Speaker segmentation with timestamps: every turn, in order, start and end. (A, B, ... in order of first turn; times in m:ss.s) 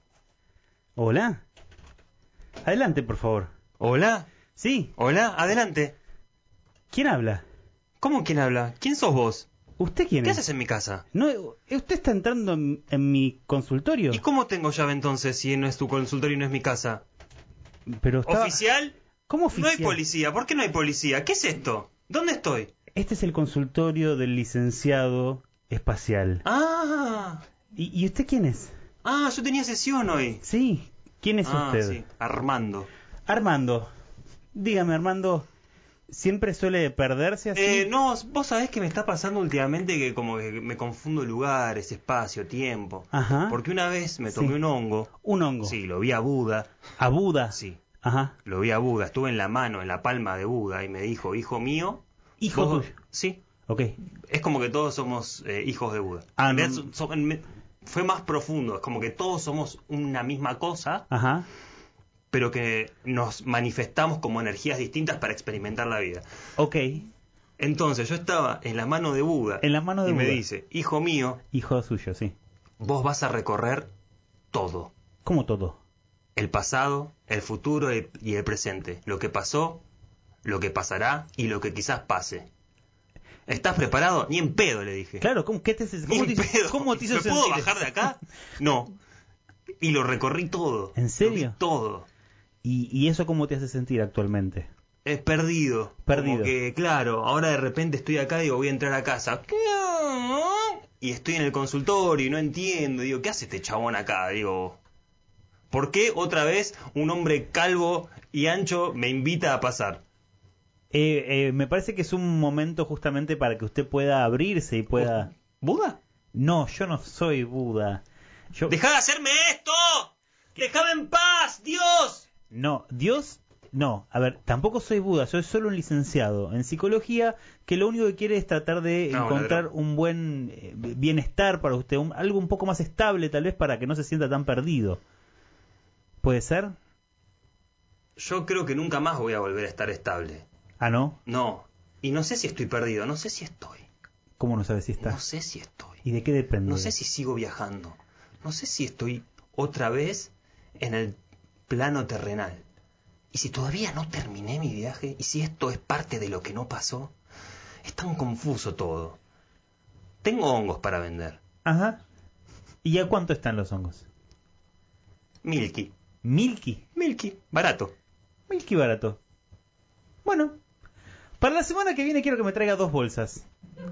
0:01.0-0:01.4 A
0:02.6-0:03.5 A
0:03.8-0:04.3 B
0:04.6-0:04.9 A
0:05.0-0:05.9 B
0:06.9-0:07.4 A
0:08.0-0:09.5 B
0:09.8-0:10.4 A
0:10.2-0:11.0 B
0:11.1-0:14.2 A
0:14.1-0:17.0 B
0:17.9-0:18.6 A
0:18.2-0:18.9 B
0:19.3-0:20.0 A
0:19.5-0:22.7 B
0:22.9-0:26.4 A
0:26.4-0:27.4 B
0:27.8-0:28.7 A
0:29.0-0:30.4 B
0:30.4-0:32.0 A
0:31.4-0:32.9 B
0:33.3-0:33.9 A
0:34.5-0:35.5 A
0:36.1-0:37.9 A
0:37.5-0:45.1 B
0:43.1-0:43.6 A
0:45.2-0:45.8 A
0:45.6-0:46.7 B
0:47.0-0:48.3 A
0:47.5-0:47.8 B
0:48.4-0:53.4 B
0:52.4-0:52.9 A
0:53.7-0:54.0 A
0:54.3-1:01.0 B
0:56.4-0:56.9 A
1:01.1-1:01.5 A
1:02.3-1:06.2 B
1:06.6-1:07.1 A
1:07.6-1:11.4 B
1:09.6-1:10.4 A
1:11.5-1:12.3 A
1:12.8-1:13.9 B
1:14.5-1:14.9 B
1:15.2-1:15.8 A
1:16.4-1:19.8 B
1:20.4-1:22.5 B
1:23.5-1:25.2 B
1:25.2-1:28.1 A
1:26.0-1:28.9 B
1:29.8-1:32.1 B
1:31.0-1:31.6 A
1:32.6-1:34.7 A
1:35.0-1:44.8 B
1:36.0-1:36.5 A
1:45.7-1:50.0 B
1:50.9-1:55.3 A
1:54.9-1:56.0 B
1:56.3-1:58.0 A
1:58.7-2:02.2 B
2:02.5-2:15.0 A
2:09.1-2:09.7 B
2:16.2-2:16.7 A
2:18.2-2:20.4 B
2:20.8-2:21.2 A
2:21.2-2:23.8 B
2:24.4-2:25.2 A
2:25.0-2:26.0 B
2:26.0-2:26.9 A
2:26.6-2:31.2 B
2:31.7-2:32.6 B
2:33.3-2:37.1 B
2:37.8-2:39.2 B
2:40.2-2:41.4 B
2:41.6-2:42.0 A
2:42.8-2:44.0 A
2:45.4-2:45.9 B
2:46.2-2:46.8 A
2:46.9-2:47.9 B
2:48.5-2:49.2 A
2:50.2-2:50.6 A
2:51.4-2:53.4 A